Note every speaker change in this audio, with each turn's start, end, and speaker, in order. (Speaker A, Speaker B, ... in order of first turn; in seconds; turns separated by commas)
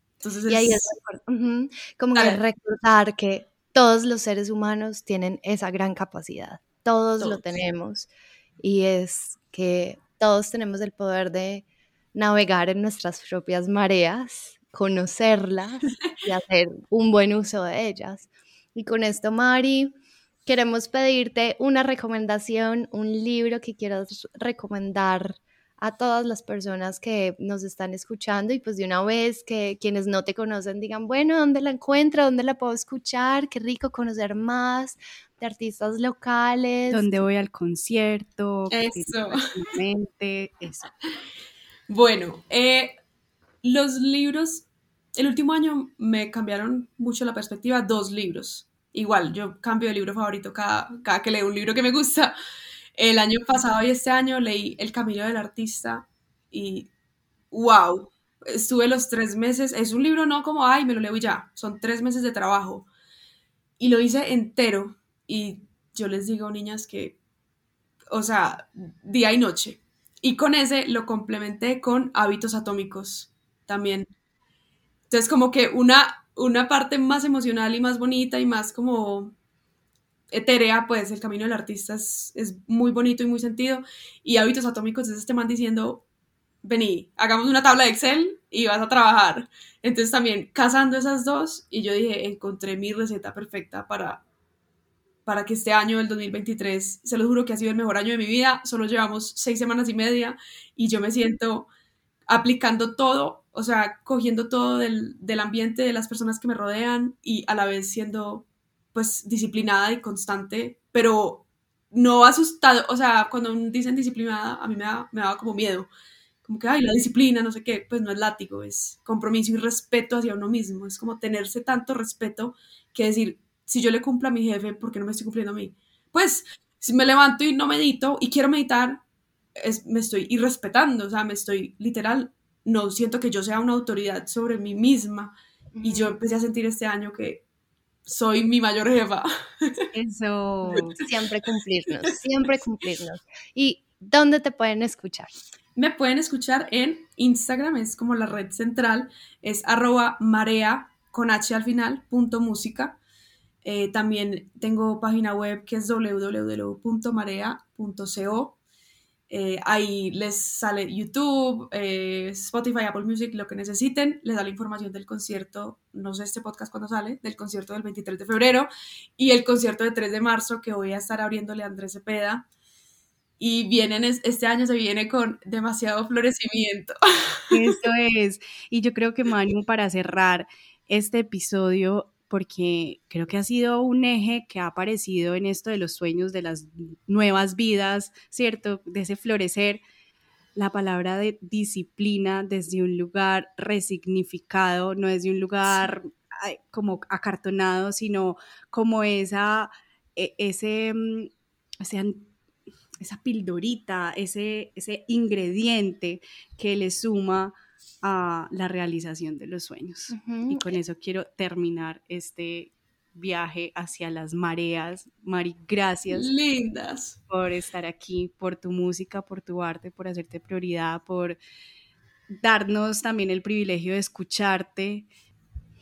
Speaker A: 0.2-0.9, Speaker B: 0.5-8.1, Speaker A: 2.1-2.4, Speaker A: 7.2-7.6, Speaker B: 8.6-19.9, Speaker B: 20.5-37.2, Speaker C: 36.9-40.9, Speaker A: 38.7-39.5, Speaker A: 41.9-43.0, Speaker A: 43.6-52.3, Speaker A: 53.0-56.9, Speaker A: 57.5-62.9, Speaker A: 63.8-67.2, Speaker A: 68.1-74.1, Speaker A: 75.1-79.3, Speaker A: 80.3-86.0, Speaker A: 86.6-94.2, Speaker A: 95.3-101.7, Speaker A: 102.3-115.9, Speaker A: 116.4-129.0, Speaker A: 129.6-137.4, Speaker B: 135.8-136.2, Speaker A: 138.1-139.8, Speaker C: 139.9-141.0, Speaker B: 140.7-145.3, Speaker A: 140.8-141.0, Speaker A: 145.8-153.0, Speaker A: 153.6-158.6, Speaker A: 159.3-172.4, Speaker A: 173.4-177.4, Speaker C: 177.5-189.8, Speaker C: 190.6-202.3, Speaker C: 203.0-216.3, Speaker B: 210.1-210.7, Speaker A: 216.1-217.2, Speaker C: 217.3-221.4, Speaker C: 222.4-225.1